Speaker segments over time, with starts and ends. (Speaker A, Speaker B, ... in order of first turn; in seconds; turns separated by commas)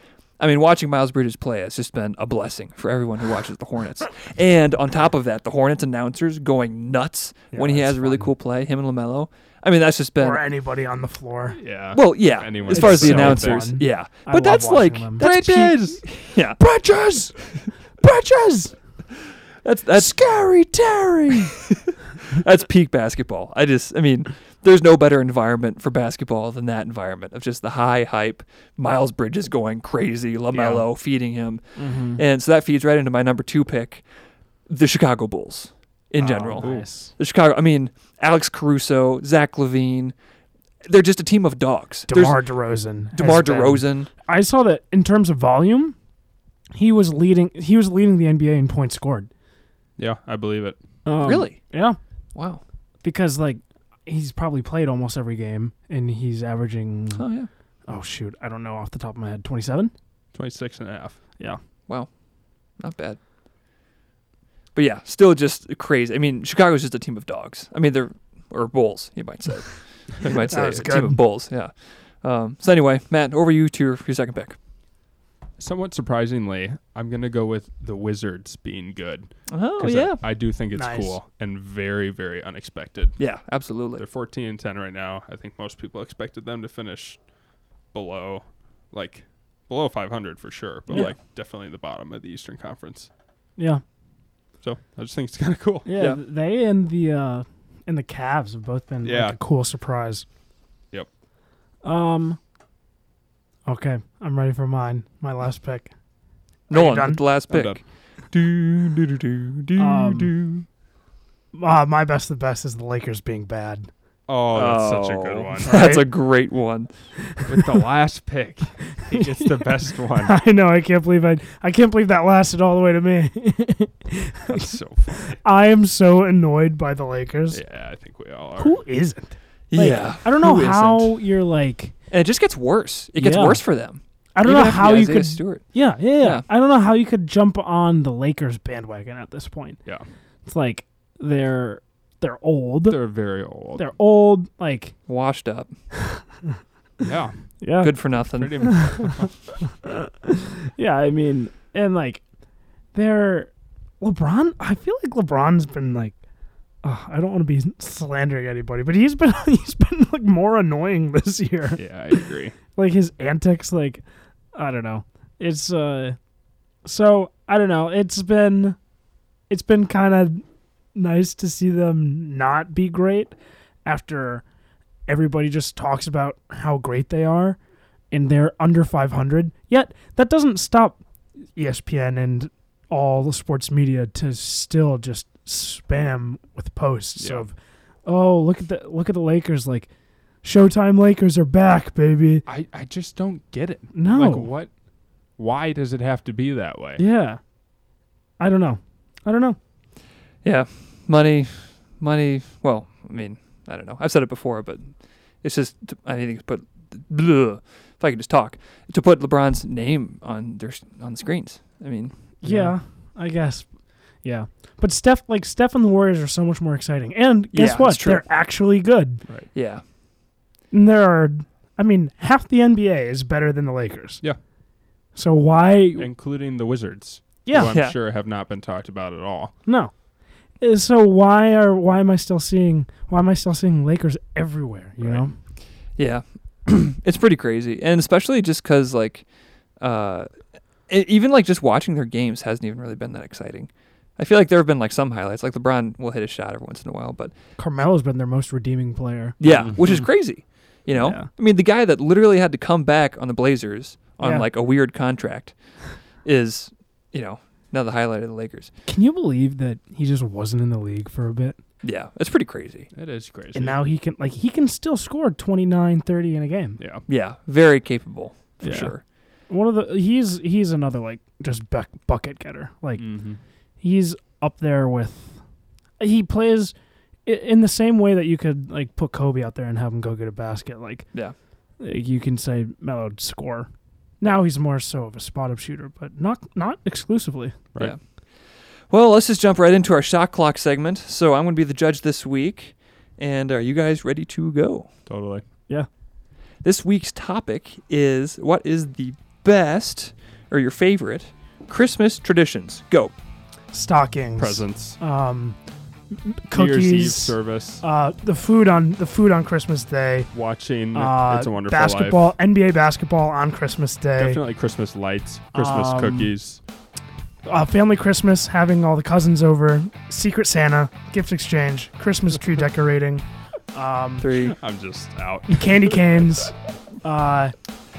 Speaker A: 0.4-10.4, Speaker B: 7.5-8.3, Speaker B: 10.2-11.6, Speaker C: 11.6-13.7, Speaker A: 11.9-16.6, Speaker B: 12.7-15.3, Speaker C: 15.2-16.1, Speaker B: 16.6-18.7, Speaker A: 19.6-20.3, Speaker B: 19.9-21.5, Speaker A: 21.5-34.0, Speaker C: 30.5-30.8, Speaker B: 31.8-32.2, Speaker A: 34.7-40.1, Speaker B: 36.2-37.1, Speaker C: 36.6-36.9, Speaker A: 40.8-42.4, Speaker B: 42.1-45.9, Speaker A: 43.1-44.1, Speaker B: 46.7-49.3, Speaker C: 50.0-50.8, Speaker B: 51.0-52.0, Speaker A: 51.2-51.7, Speaker A: 52.3-52.6, Speaker B: 53.0-57.2, Speaker A: 57.1-57.5, Speaker B: 57.9-59.9, Speaker C: 60.3-61.2, Speaker A: 62.8-63.2, Speaker A: 64.7-74.6, Speaker B: 70.3-71.2, Speaker C: 75.6-83.2, Speaker A: 79.5-80.2, Speaker B: 80.7-81.2, Speaker A: 83.2-84.0, Speaker C: 84.0-87.2, Speaker C: 87.9-93.1, Speaker B: 93.6-93.8, Speaker C: 94.6-95.9, Speaker B: 95.8-100.2, Speaker C: 99.0-99.4, Speaker B: 101.8-102.4, Speaker B: 103.7-105.9, Speaker B: 106.7-107.2, Speaker A: 106.7-110.7, Speaker C: 107.5-107.8, Speaker B: 109.8-110.3, Speaker B: 111.5-113.9, Speaker C: 114.3-115.9, Speaker A: 114.5-116.9, Speaker B: 115.6-116.1, Speaker B: 117.3-117.7, Speaker C: 117.5-120.3, Speaker B: 119.1-127.6, Speaker C: 124.5-125.3, Speaker C: 127.5-128.8, Speaker B: 128.6-131.9, Speaker A: 129.7-131.1, Speaker A: 132.1-136.4, Speaker B: 133.2-133.6, Speaker B: 134.3-139.8, Speaker B: 140.4-143.0, Speaker C: 142.9-143.9, Speaker B: 143.7-144.9, Speaker A: 145.1-145.7, Speaker C: 147.0-147.3, Speaker B: 147.6-147.9, Speaker A: 147.8-148.9, Speaker C: 148.3-149.4, Speaker B: 148.6-149.2, Speaker B: 149.8-152.2, Speaker B: 152.9-156.2, Speaker B: 156.8-162.2, Speaker C: 161.8-162.6, Speaker B: 162.7-164.0, Speaker B: 164.5-166.2, Speaker B: 166.8-168.8, Speaker B: 169.5-170.4, Speaker B: 170.9-174.4, Speaker B: 175.1-177.6, Speaker B: 178.1-181.0, Speaker B: 181.6-189.9, Speaker C: 187.2-187.4, Speaker B: 190.4-192.4, Speaker C: 192.4-194.7, Speaker B: 193.9-194.5, Speaker C: 195.4-197.0, Speaker B: 197.0-197.4, Speaker B: 198.4-199.6, Speaker A: 200.4-212.1, Speaker B: 212.4-213.7, Speaker C: 212.4-212.7, Speaker B: 214.2-219.2, Speaker A: 217.5-218.3, Speaker A: 219.5-219.8, Speaker B: 220.7-224.2, Speaker B: 225.1-226.1, Speaker C: 226.0-229.5, Speaker B: 227.4-227.7, Speaker A: 227.7-227.9, Speaker B: 229.7-229.9, Speaker B: 230.6-235.3, Speaker C: 235.0-235.2, Speaker A: 236.0-239.2, Speaker A: 239.8-240.3, Speaker A: 240.9-247.3, Speaker B: 247.6-250.0, Speaker A: 249.4-255.5, Speaker C: 249.4-249.9, Speaker B: 250.9-251.3, Speaker B: 254.2-254.5, Speaker A: 256.2-258.7, Speaker B: 258.9-261.6, Speaker A: 261.8-262.9, Speaker C: 262.9-263.8, Speaker B: 263.5-266.8, Speaker C: 266.8-267.0, Speaker A: 267.1-269.0, Speaker B: 268.6-273.1, Speaker C: 273.0-273.4, Speaker B: 273.8-275.4, Speaker B: 276.0-276.7, Speaker B: 277.2-281.1, Speaker B: 281.8-283.7, Speaker B: 284.2-287.5, Speaker A: 288.9-294.9, Speaker C: 295.1-295.4, Speaker A: 296.6-303.1, Speaker B: 303.7-305.6, Speaker C: 304.4-305.0, Speaker B: 306.2-310.3, Speaker C: 306.5-307.8, Speaker C: 310.3-312.3, Speaker B: 310.9-314.4, Speaker C: 314.2-316.6, Speaker B: 315.5-316.3, Speaker B: 317.4-324.3, Speaker A: 324.2-324.6, Speaker C: 324.4-326.0, Speaker B: 325.5-327.5